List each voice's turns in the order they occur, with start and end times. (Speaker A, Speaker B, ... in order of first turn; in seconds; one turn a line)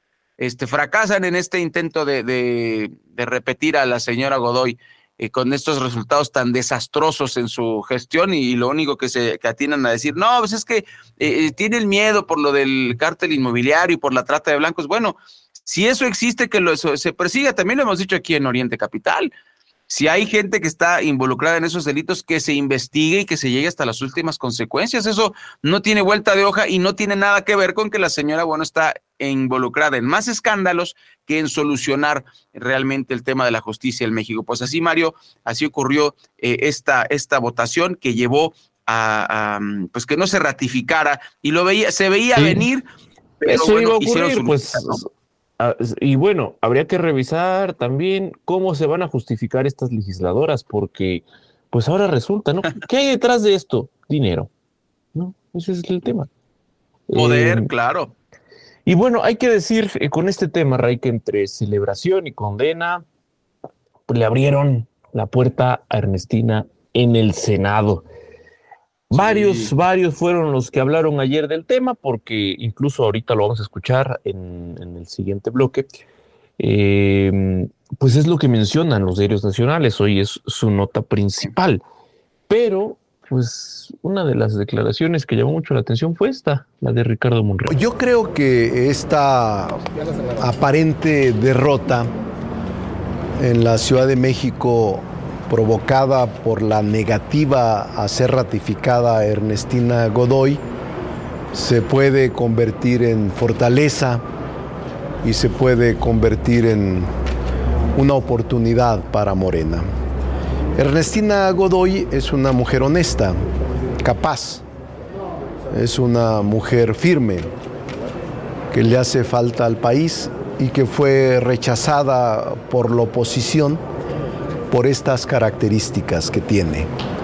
Speaker A: 0.4-19.3
Speaker A: 19.9-42.8
Speaker B: 42.4-42.7
Speaker A: 43.4-45.0
Speaker B: 43.4-54.5
Speaker B: 55.1-56.3
Speaker B: 57.1-57.7
Speaker A: 57.1-58.1
Speaker B: 58.9-63.0
Speaker B: 64.1-68.1
Speaker B: 69.1-75.9
Speaker A: 69.1-69.7
Speaker B: 76.6-81.8
Speaker B: 82.5-87.8
Speaker C: 87.7-89.8
Speaker C: 90.4-92.1
Speaker C: 93.4-100.6
Speaker C: 101.5-104.2
Speaker C: 105.2-107.1
Speaker C: 108.0-109.9
Speaker C: 110.8-113.4
Speaker C: 114.0-114.6
Speaker C: 115.7-117.5
Speaker C: 118.7-123.8
Speaker C: 124.7-126.9